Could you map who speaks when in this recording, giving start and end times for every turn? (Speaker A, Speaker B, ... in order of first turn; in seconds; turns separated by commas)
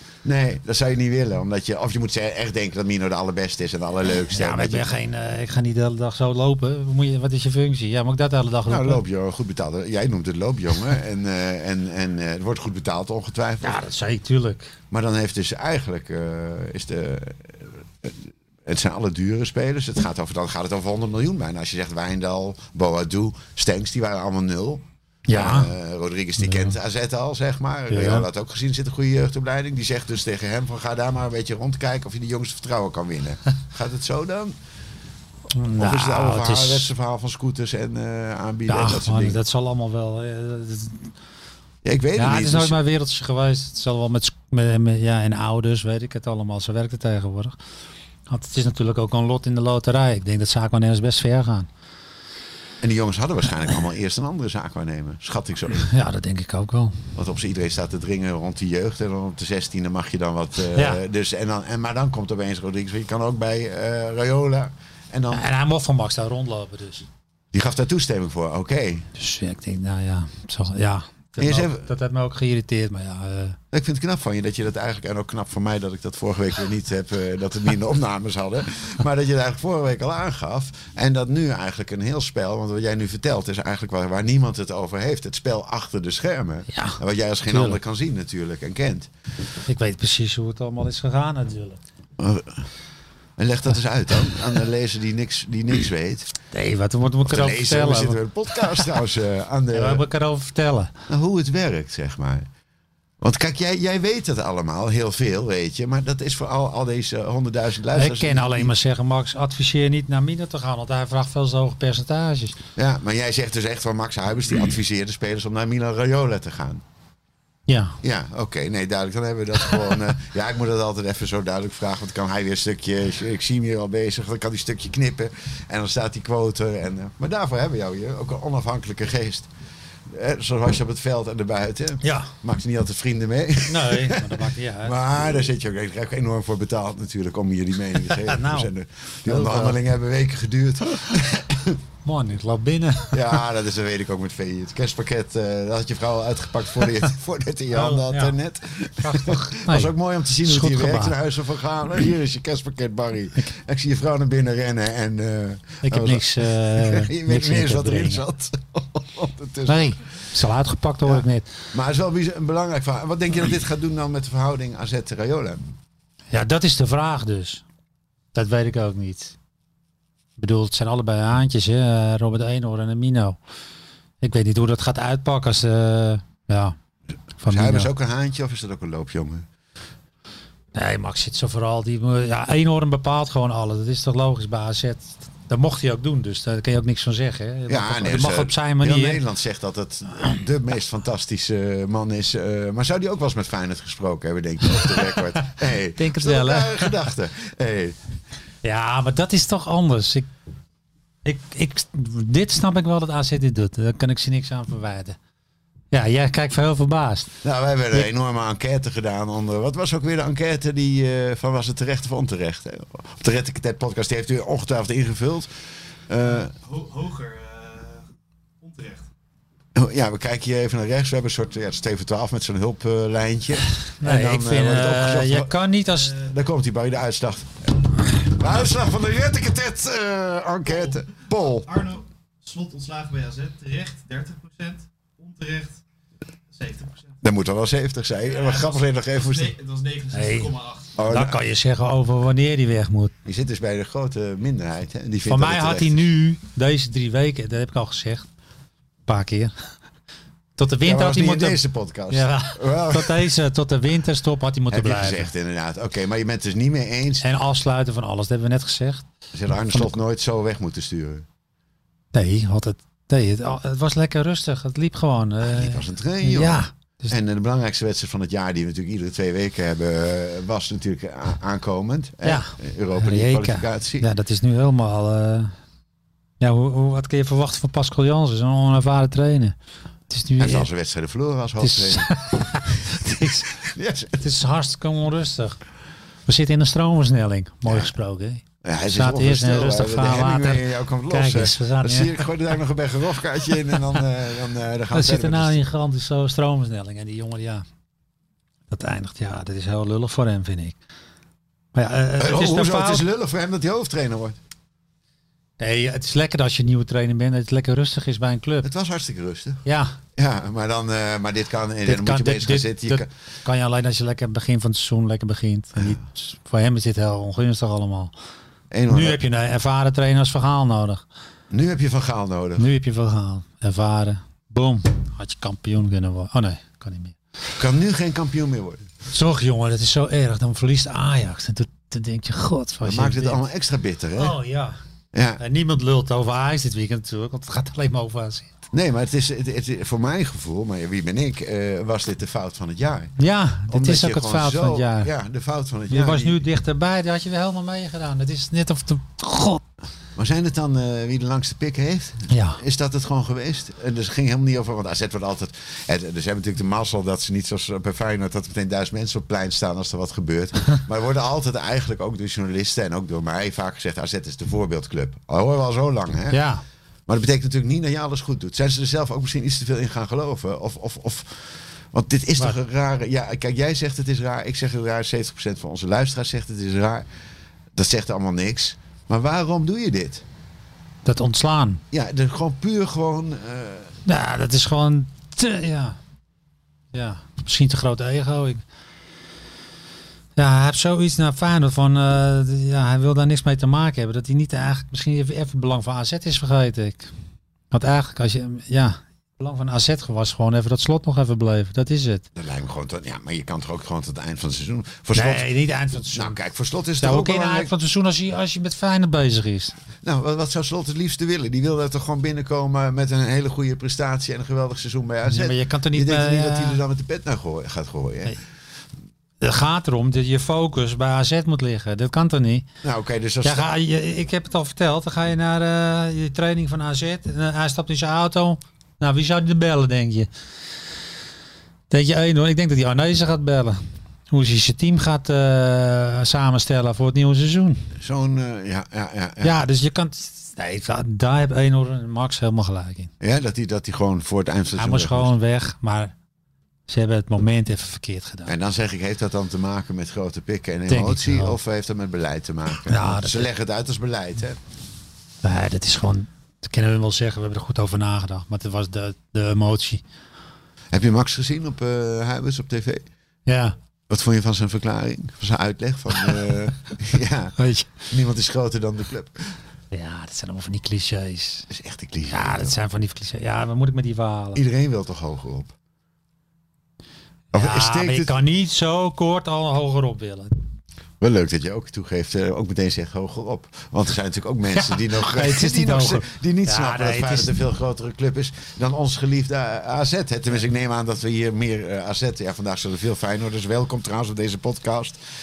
Speaker A: 0.2-4.9, Speaker B: 4.3-9.0, Speaker A: 8.7-13.8, Speaker B: 13.6-14.7, Speaker A: 14.9-34.5, Speaker B: 25.3-25.7, Speaker B: 26.4-26.7, Speaker B: 27.9-28.3, Speaker B: 35.5-36.9, Speaker A: 35.8-39.4, Speaker B: 38.7-41.1, Speaker A: 41.8-42.8, Speaker B: 42.1-47.5, Speaker B: 48.3-51.7, Speaker A: 52.8-55.9, Speaker B: 55.8-57.0, Speaker A: 57.1-65.4, Speaker B: 60.7-61.0, Speaker B: 65.3-67.1, Speaker A: 67.5-69.1, Speaker B: 69.2-73.6, Speaker A: 71.4-71.9, Speaker A: 73.7-89.1, Speaker B: 86.7-87.8, Speaker B: 89.7-91.8, Speaker A: 92.2-92.6, Speaker A: 93.4-96.3, Speaker B: 96.5-98.9, Speaker A: 97.2-100.0, Speaker B: 99.7-100.9, Speaker A: 101.1-102.5, Speaker A: 103.2-108.7, Speaker B: 107.9-112.6, Speaker A: 112.8-116.8, Speaker B: 117.7-118.0, Speaker A: 118.0-129.5, Speaker A: 130.1-141.8, Speaker B: 132.0-132.3, Speaker B: 133.7-135.0, Speaker B: 138.0-138.7, Speaker B: 139.2-139.8, Speaker B: 142.0-143.4, Speaker A: 143.1-160.1, Speaker B: 147.7-148.3, Speaker B: 149.0-151.2, Speaker B: 155.8-158.2, Speaker B: 159.7-161.5, Speaker A: 161.0-165.7, Speaker B: 166.3-167.6, Speaker B: 168.3-169.3, Speaker B: 170.4-173.4, Speaker B: 174.2-176.8, Speaker B: 177.4-177.9, Speaker A: 177.4-179.5, Speaker B: 180.7-189.2, Speaker A: 187.7-198.0, Speaker B: 194.8-196.9, Speaker B: 198.6-200.3, Speaker B: 201.2-205.2, Speaker B: 205.9-207.3, Speaker A: 207.4-215.5, Speaker A: 216.1-216.6, Speaker C: 217.0-217.8, Speaker A: 219.7-225.5, Speaker B: 224.0-226.2, Speaker A: 226.1-232.0, Speaker C: 232.5-234.8, Speaker C: 235.3-235.7, Speaker C: 236.6-236.9, Speaker A: 237.2-239.6, Speaker C: 239.6-240.0, Speaker B: 240.1-243.1, Speaker A: 240.9-241.4, Speaker A: 243.2-246.0, Speaker B: 245.2-248.3, Speaker B: 249.1-249.5, Speaker B: 250.6-255.3, Speaker A: 250.8-253.3, Speaker A: 254.7-257.2, Speaker B: 257.2-259.1, Speaker A: 259.3-261.2, Speaker B: 262.1-267.1, Speaker A: 265.4-274.1, Speaker B: 272.2-275.5, Speaker B: 276.4-279.6, Speaker B: 280.1-280.7, Speaker A: 280.4-282.1, Speaker B: 281.6-283.6, Speaker A: 282.6-284.2, Speaker B: 284.2-285.6, Speaker B: 286.3-292.3, Speaker A: 287.6-287.9, Speaker A: 288.6-295.6, Speaker B: 294.9-297.6, Speaker B: 298.7-300.8, Speaker B: 301.7-303.1, Speaker A: 302.2-304.4, Speaker B: 305.6-308.7, Speaker A: 308.6-309.6, Speaker B: 309.6-310.0, Speaker A: 310.1-313.1, Speaker B: 311.8-318.1, Speaker A: 318.7-319.2, Speaker B: 318.9-321.0, Speaker A: 321.5-322.7, Speaker B: 322.6-327.2, Speaker A: 327.6-328.9, Speaker B: 329.1-333.4, Speaker A: 332.8-334.4, Speaker B: 334.1-334.8, Speaker A: 335.1-335.4, Speaker B: 335.4-338.5, Speaker A: 338.7-343.1, Speaker B: 343.2-345.1, Speaker A: 343.7-346.4, Speaker B: 345.9-349.6, Speaker A: 350.1-366.4, Speaker B: 352.3-352.6, Speaker B: 366.3-366.6, Speaker A: 367.1-377.1, Speaker A: 377.7-380.2, Speaker B: 381.0-381.8, Speaker A: 381.9-383.9, Speaker B: 384.0-386.0, Speaker B: 386.9-388.6, Speaker B: 390.4-397.1, Speaker B: 397.7-402.2, Speaker A: 402.3-405.5, Speaker B: 405.1-406.4, Speaker A: 406.1-407.7, Speaker B: 407.0-409.8, Speaker A: 410.0-418.4, Speaker B: 415.2-416.8, Speaker B: 419.4-422.6, Speaker A: 422.8-423.7, Speaker B: 423.4-430.3, Speaker B: 431.9-433.8, Speaker B: 434.3-437.9, Speaker A: 438.0-439.6, Speaker B: 439.4-443.1, Speaker A: 443.2-445.3, Speaker B: 444.8-446.1, Speaker B: 446.9-448.5, Speaker A: 448.4-454.6, Speaker B: 450.9-451.6, Speaker B: 452.9-453.5, Speaker B: 455.4-460.0, Speaker A: 460.9-463.1, Speaker B: 463.4-463.7, Speaker A: 464.1-467.6, Speaker B: 467.6-468.0, Speaker A: 468.1-469.5, Speaker B: 469.9-471.7, Speaker A: 471.7-472.8, Speaker B: 472.3-474.6, Speaker A: 474.5-475.7, Speaker A: 477.5-478.3, Speaker B: 477.5-480.5, Speaker A: 481.2-495.2, Speaker B: 484.7-487.6